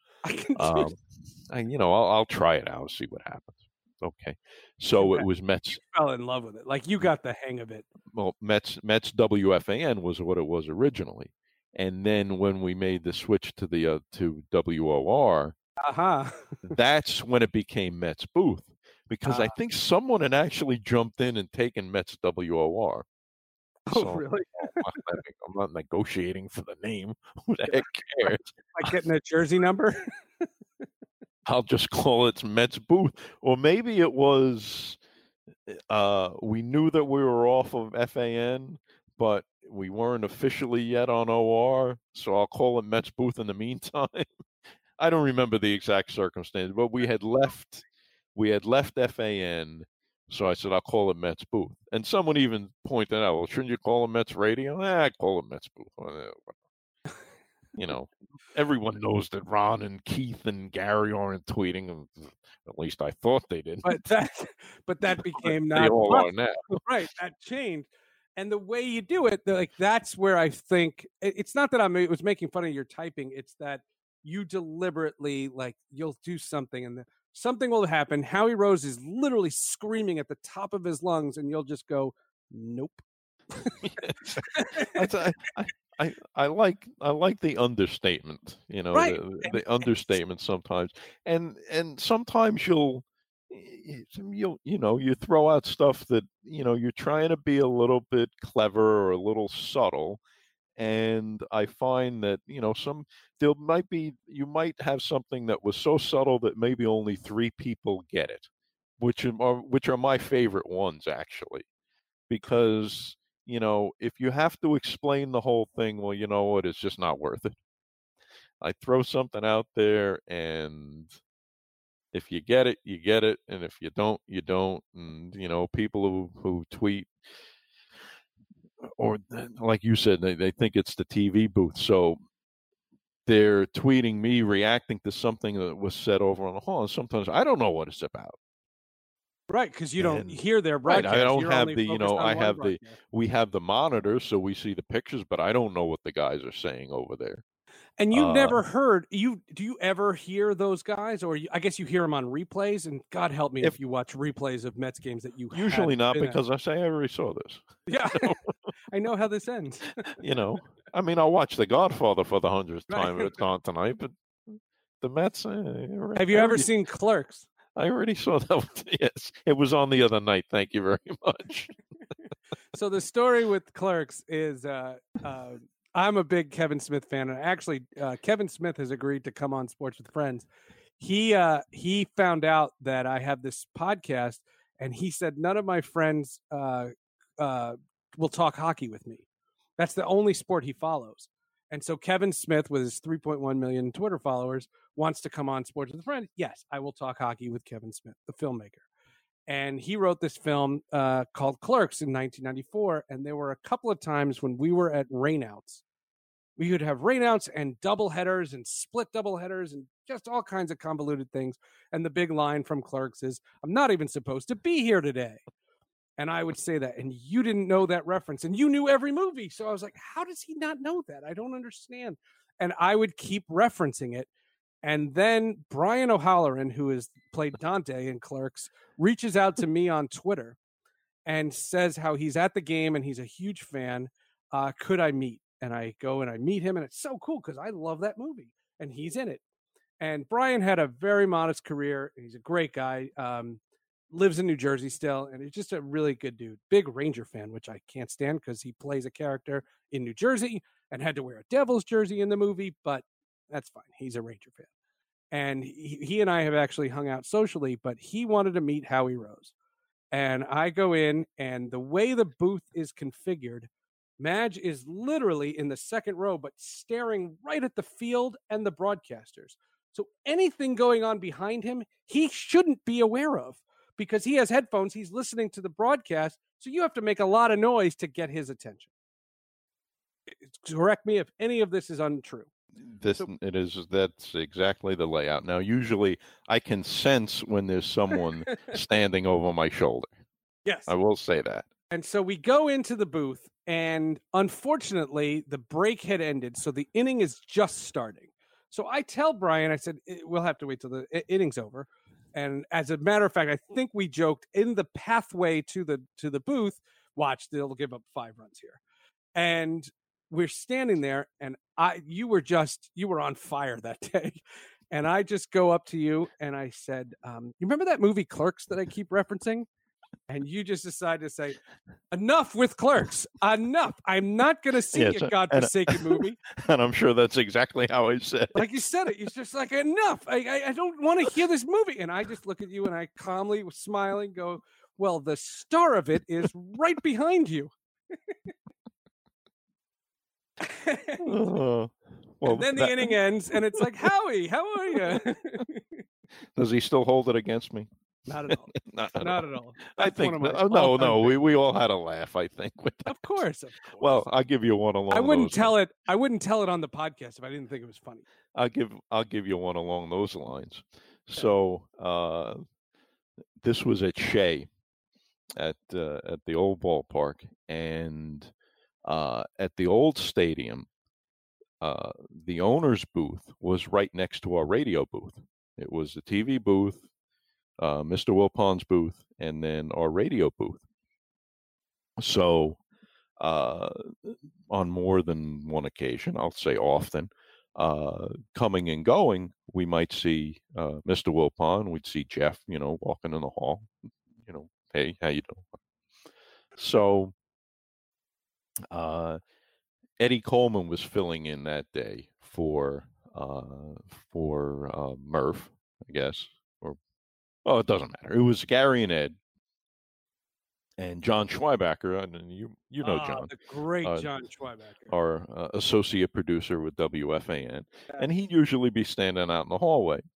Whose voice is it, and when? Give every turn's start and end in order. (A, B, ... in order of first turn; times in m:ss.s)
0:00.2-0:00.9 A
0:00.6-0:05.8 B
0:05.0-0:05.3 A
0:05.8-0:07.9 A
0:08.1-0:15.5 B
0:15.8-0:16.6 A
0:16.7-0:23.0 B
0:19.2-0:19.6 A
0:23.9-0:24.9 A
0:23.9-0:28.6 B
0:28.8-0:30.5 A
0:31.4-0:35.0 B
0:35.7-0:44.3 B
0:45.0-0:56.5 B
0:57.8-1:04.0 B
1:03.8-1:23.0 A
1:05.2-1:06.8 B
1:23.8-1:40.2 B
1:24.5-1:25.0 A
1:28.9-1:29.6 A
1:40.8-1:48.5 B
1:49.0-1:51.7 B
1:52.3-1:57.6 B
1:58.6-2:01.2 B
2:02.1-2:07.1 B
2:08.8-2:12.2 B
2:13.3-2:18.4 B
2:19.5-2:23.0 A
2:20.0-2:27.4 B
2:28.0-2:36.4 A
2:28.1-2:28.6 B
2:35.5-2:38.4 B
2:37.9-2:40.2 A
2:40.1-2:46.7 B
2:42.9-2:43.4 A
2:46.2-2:47.5 A
2:47.8-2:51.8 B
2:52.7-3:00.5 A
3:01.0-3:09.2 A
3:09.8-3:18.8 A
3:19.5-3:25.8 A
3:26.6-3:35.4 A
3:36.2-3:44.3 A
3:44.8-3:50.6 A
3:51.3-3:59.4 A
4:00.0-4:03.6 A
4:04.1-4:14.7 A
4:15.3-4:19.5 A
4:20.1-4:38.9 A
4:40.3-4:42.5 A
4:42.8-4:50.2 B
4:50.6-4:50.9 A
4:50.9-4:51.7 B
4:51.9-5:08.8 A
5:09.4-5:19.7 A
5:20.3-5:21.6 A
5:22.1-5:26.4 A
5:24.9-5:28.6 B
5:28.5-5:37.7 A
5:40.6-5:41.4 A
5:41.2-5:43.2 B
5:42.5-5:46.0 A
5:44.9-5:45.2 B
5:46.6-5:47.9 B
5:48.3-5:51.4 A
5:48.5-5:53.4 B
5:53.1-5:54.2 A
5:54.0-5:55.7 B
5:55.1-5:58.3 A
5:58.5-6:02.6 B
6:03.6-6:04.7 B
6:05.6-6:08.5 B
6:09.0-6:10.9 B
6:11.8-6:17.0 B
6:17.8-6:20.8 B
6:22.2-6:22.8 B
6:23.4-6:33.9 B
6:34.4-6:35.7 B
6:36.8-6:37.3 B
6:38.9-6:39.4 B
6:40.2-6:47.0 B
6:47.6-6:49.4 B
6:51.0-6:54.3 B
6:53.0-6:55.1 A
6:55.1-7:00.2 B